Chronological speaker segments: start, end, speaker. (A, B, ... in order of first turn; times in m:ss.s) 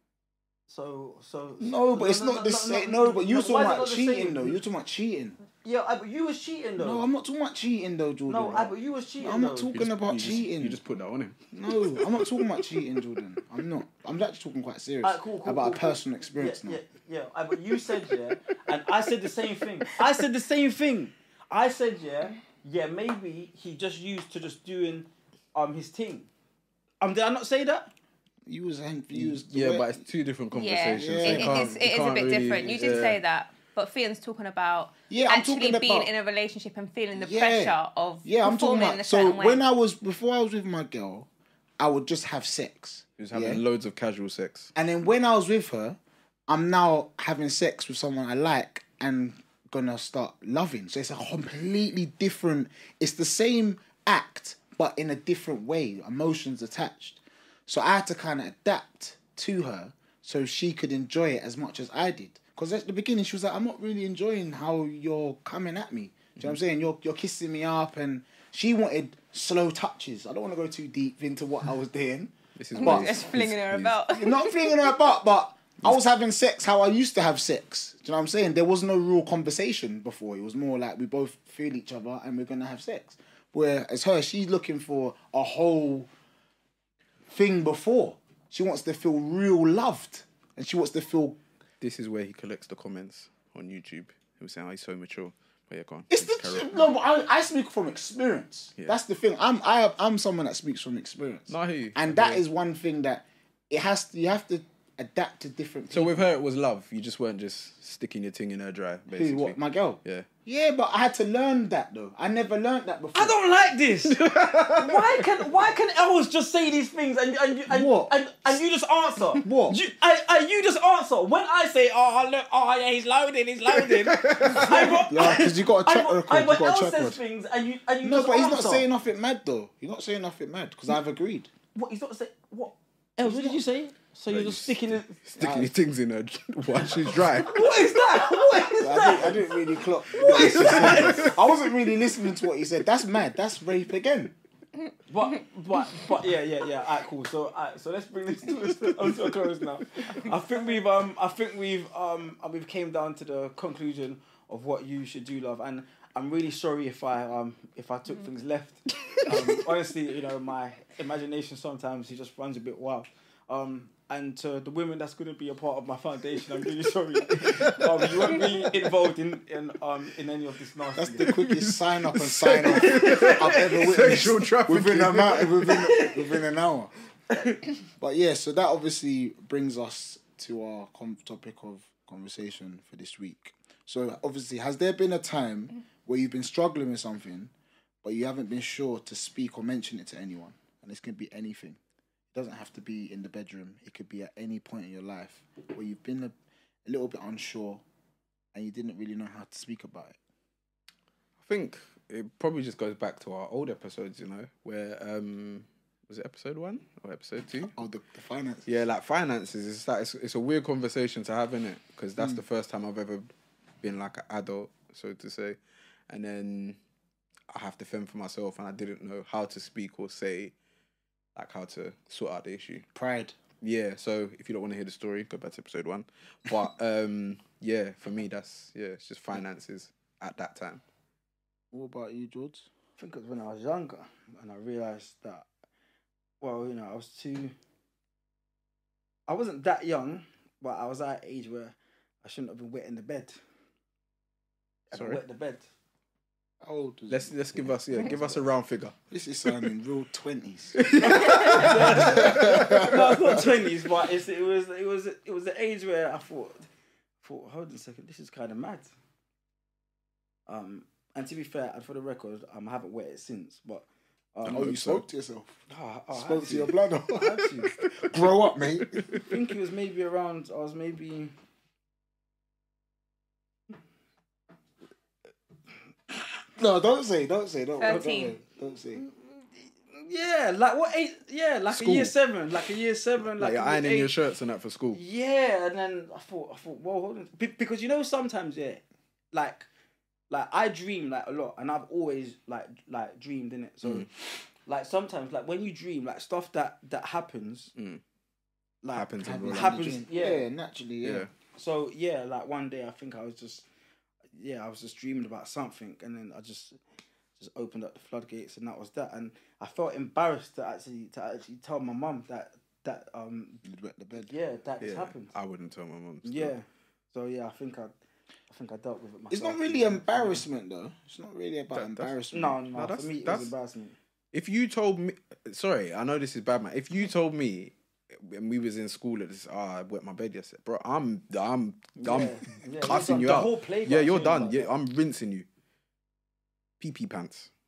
0:00.7-0:04.6 A
0:01.6-0:05.4 B
0:05.6-0:07.1 A
0:06.8-0:10.8 B
0:08.3-0:09.7 A
0:09.7-0:12.5 C
0:11.5-0:16.8 B
0:15.0-0:26.3 A
0:27.0-0:27.9 A
0:28.5-0:30.0 B
0:29.1-0:33.2 C
0:30.5-0:39.6 D
0:30.9-0:31.8 B
0:35.1-0:36.1 B
0:37.2-0:41.3 B
0:41.8-0:43.6 B
0:43.2-0:44.7 C
0:44.8-1:13.3 B
1:12.6-1:14.0 C
1:12.8-1:15.0 D
1:14.1-1:26.1 B
1:27.3-1:31.4 B
1:31.8-1:36.9 C
1:36.1-1:46.3 B
1:41.5-1:42.4 C
1:45.9-1:50.3 C
1:49.1-1:53.3 B
1:53.2-2:08.9 A
1:54.1-1:55.4 C
1:57.7-1:58.6 B
1:59.4-1:59.8 B
2:03.7-2:05.1 C
2:04.7-2:07.2 B
2:08.0-2:11.5 B
2:11.8-2:15.2 A
2:13.2-2:13.6 B
2:14.3-2:17.8 C
2:15.4-2:15.7 B
2:17.2-2:21.4 A
2:18.8-2:24.4 B
2:20.3-2:21.7 C
2:25.1-2:51.4 A
2:39.1-2:39.6 C
2:47.4-2:48.7 C
2:51.0-2:56.9 B
2:51.2-2:55.9 C
2:52.6-2:53.9 A
2:55.7-2:56.3 A
2:57.3-2:57.7 A
2:58.0-3:07.5 B
3:08.0-3:11.8 B
3:12.3-3:17.8 B
3:18.5-3:20.2 B
3:21.4-3:27.7 C
3:27.6-3:28.7 B
3:28.7-3:33.3 C
3:33.8-3:35.6 C
3:36.1-3:36.8 C
3:37.5-3:40.5 C
3:41.4-3:42.9 C
3:42.9-3:43.4 B
3:43.6-3:50.8 C
3:51.7-3:52.7 B
3:53.0-3:55.5 A
3:56.4-3:57.5 A
3:59.3-4:03.4 A
4:04.9-4:05.2 C
4:04.9-4:05.7 A
4:06.6-4:08.5 B
4:07.1-4:09.7 C
4:09.1-4:13.4 B
4:10.8-4:13.4 C
4:11.0-4:16.7 A
4:17.2-4:18.9 A
4:20.5-4:24.7 A
4:24.4-4:25.0 C
4:24.5-4:25.6 B
4:25.7-4:27.8 A
4:26.1-4:29.0 B
4:27.8-4:28.3 C
4:28.9-4:29.3 C
4:29.1-4:31.3 A
4:36.6-4:39.0 B
4:37.8-4:38.4 D
4:39.0-4:44.1 A
4:41.7-4:42.1 C
4:43.4-4:45.0 C
4:44.9-4:49.7 A
4:50.3-4:54.1 A
4:53.8-4:54.1 C
4:54.6-4:57.7 A
4:57.8-4:58.0 C
4:58.8-5:00.5 A
4:58.9-4:59.9 C
4:59.2-5:01.3 B
5:01.0-5:01.3 C
5:01.5-5:03.7 A
5:04.4-5:06.8 A
5:07.4-5:13.6 A
5:13.6-5:14.3 B
5:14.2-5:15.3 A
5:14.8-5:16.5 C
5:16.2-5:18.0 A
5:18.5-5:20.4 A
5:19.3-5:22.6 B
5:21.7-5:22.1 C
5:22.3-5:24.0 A
5:22.7-5:23.5 C
5:24.3-5:35.5 C
5:32.0-5:34.7 A
5:36.8-5:37.5 C